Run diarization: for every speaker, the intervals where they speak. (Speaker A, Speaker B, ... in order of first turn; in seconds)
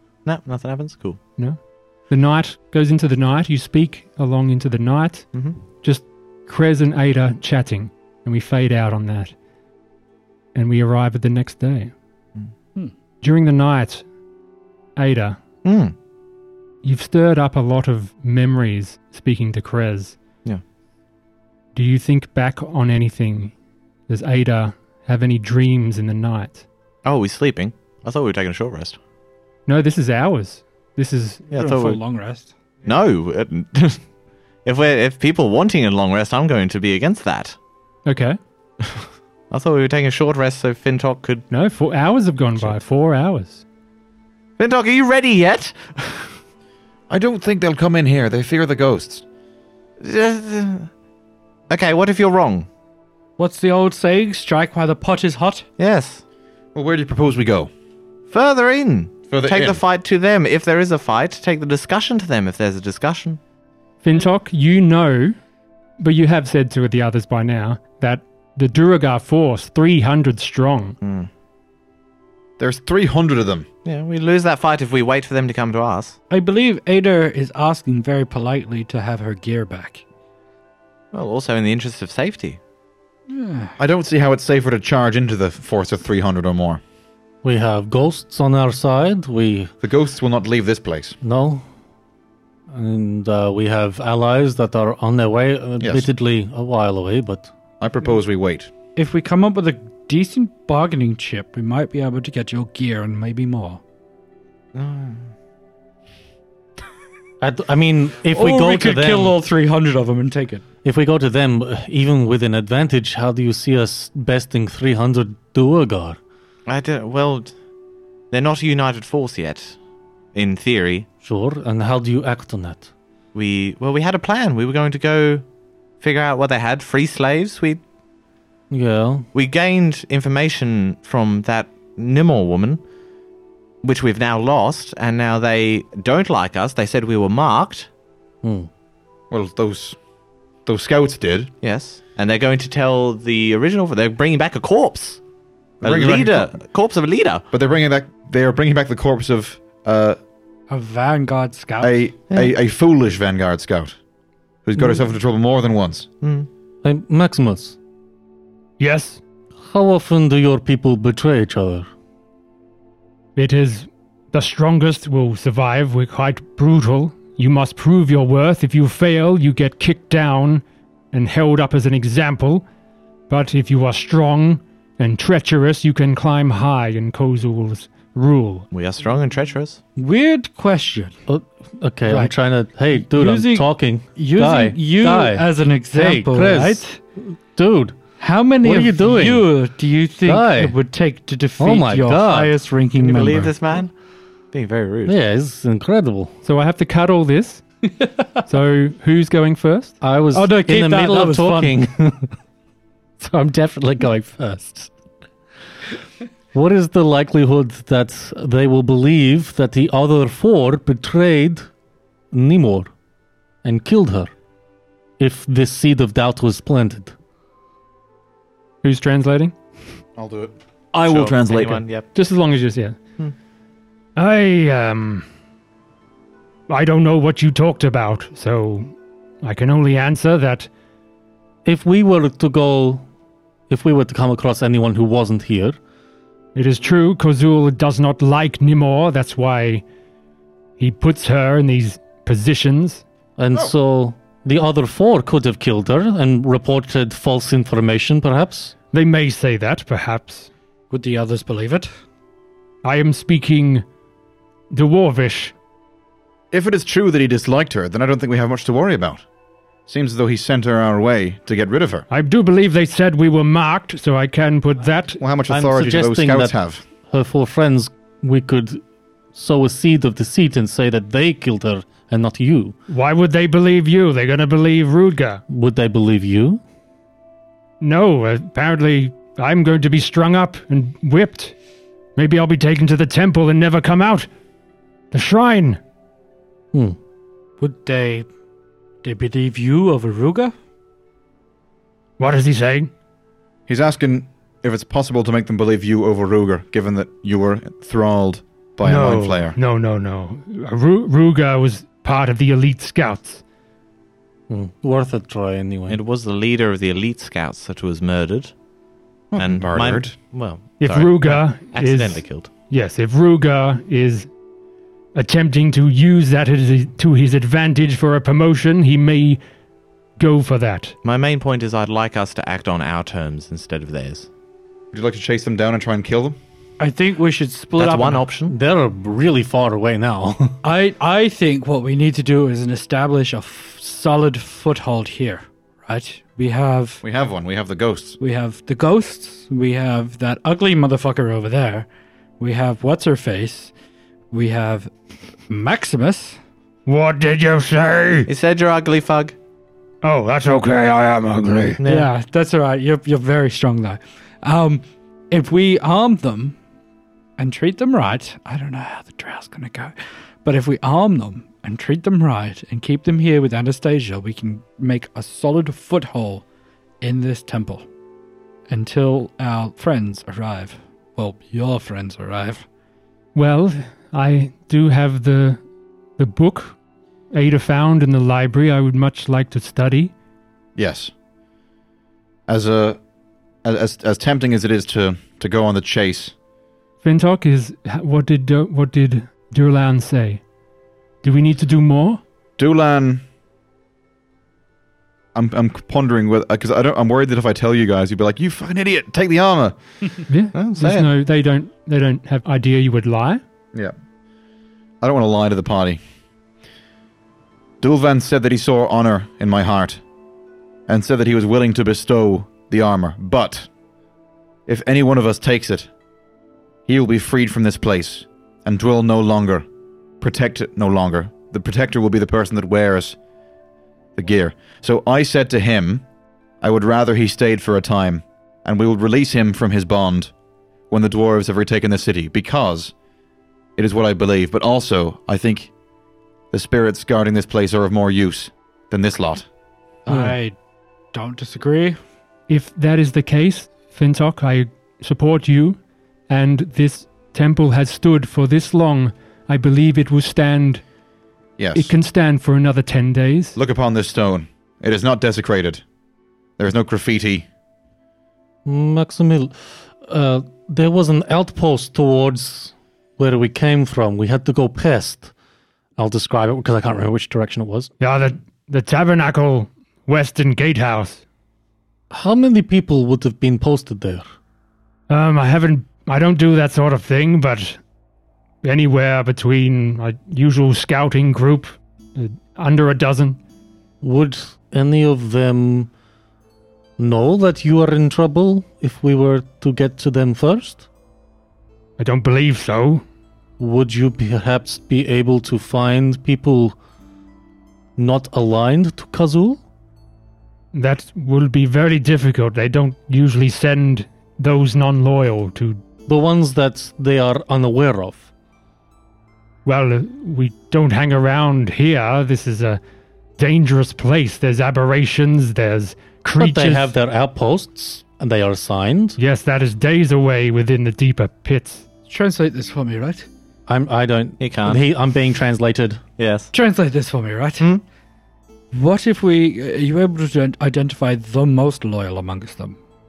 Speaker A: 0.2-1.2, 5.3-5.6, 15.6-15.9, 27.0-29.0, 31.5-32.0, 32.8-34.0, 34.6-37.6, 38.9-41.5, 44.6-46.3, 50.0-50.9, 51.7-52.7, 55.8-56.2, 58.3-63.4, 71.0-71.3, 73.8-76.2, 81.1-82.6, 104.7-105.3, 116.7-117.5, 118.3-119.8, 120.3-121.1, 123.3-125.4, 126.0-127.8, 129.3-132.8, 133.8-137.9, 141.6-145.2, 145.8-147.4, 156.2-156.5, 178.7-179.8, 193.0-193.9, 194.5-195.2, 221.0-222.1, 305.9-308.5, 309.3-312.5, 321.0-324.3, 327.8-328.5, 348.3-349.4, 351.8-352.1, 400.5-401.1, 524.4-524.9, 526.2-526.5
Speaker B: 1.4-9.3, 10.5-11.9, 13.2-14.1, 14.9-15.4, 16.8-20.2, 21.7-23.5, 24.1-26.6, 29.7-31.4, 38.0-38.4, 41.5-43.6, 64.0-65.3, 66.0-71.0, 158.8-159.2, 163.3-172.6, 173.3-178.7, 196.4-197.6, 198.4-200.0, 218.8-219.5, 222.1-223.0, 224.2-225.2, 226.7-230.7, 236.5-239.8, 240.8-243.0, 248.9-250.5, 252.8-253.8, 254.7-255.5, 262.1-265.2, 272.9-275.4, 277.8-281.5, 282.1-284.3, 285.1-285.8, 292.2-292.9, 298.8-303.4, 310.8-314.3, 315.1-319.4, 320.2-320.9, 346.9-348.3, 350.0-351.8, 373.3-375.6, 376.2-376.8, 377.3-380.1, 387.0-390.4, 391.2-392.2, 400.3-403.4, 442.5-450.8, 451.7-453.6, 468.0-471.2, 475.1-477.8, 478.6-483.4, 492.0-493.0, 500.7-505.8, 509.6-512.8, 513.4-516.9, 519.2-521.8
Speaker C: 31.6-32.5, 53.4-55.7, 76.3-80.0, 83.3-83.7, 99.0-103.8, 108.3-110.6, 150.7-152.1, 179.9-181.2, 182.1-182.3, 183.0-187.0, 188.2-193.5, 200.3-201.7, 250.9-251.9, 287.6-288.2, 289.0-290.5, 326.8-328.3, 330.6-337.0, 338.2-341.9, 342.4-343.7, 344.3-344.9, 345.5-346.4, 351.9-356.6, 357.4-366.4, 367.0-367.9, 368.7-372.6, 440.1-440.6, 441.1-442.0, 522.1-523.3, 526.5-527.8, 528.7-532.8
Speaker D: 47.1-49.2, 56.7-57.7, 59.3-59.8, 72.6-73.7, 83.8-86.8, 89.8-91.2, 95.8-96.1, 97.8-98.7, 139.3-140.0, 140.7-141.5, 145.8-146.6, 147.5-150.2, 151.8-154.0, 154.6-156.1, 220.2-221.8, 256.5-259.2, 259.9-262.1, 265.2-266.8, 293.7-299.6, 309.3-310.1, 324.9-326.4, 337.0-338.2, 380.8-381.1, 382.5-383.0, 383.6-386.3, 392.6-393.2, 395.3-399.8, 405.0-406.0, 407.8-410.0, 410.9-413.7, 414.7-415.9, 416.9-419.6, 420.2-423.1, 424.1-426.0, 426.6-430.3, 430.9-432.9, 433.8-435.7, 436.5-439.5, 451.6-451.9, 453.6-455.8, 456.6-457.5
Speaker E: 87.4-89.7, 91.2-91.6, 92.7-97.5, 107.4-109.3, 110.8-116.2, 121.2-122.9, 128.7-129.2, 138.4-138.7, 156.8-157.8, 159.6-161.9, 181.3-187.9, 188.6-189.5, 190.2-190.8, 191.6-192.5, 195.1-196.3, 200.0-202.3, 203.2-204.9, 206.5-211.7, 212.3-212.9, 213.6-214.3, 215.2-217.1, 231.6-233.0, 233.7-235.8, 243.4-248.7, 265.5-268.8, 269.3-272.7, 275.5-276.6, 304.5-306.0, 328.5-330.6, 458.6-465.3, 466.0-467.9, 472.1-474.2, 484.0-485.9, 487.0-490.8, 493.6-496.7, 498.0-499.6, 506.1-508.3, 516.4-519.2, 523.7-526.0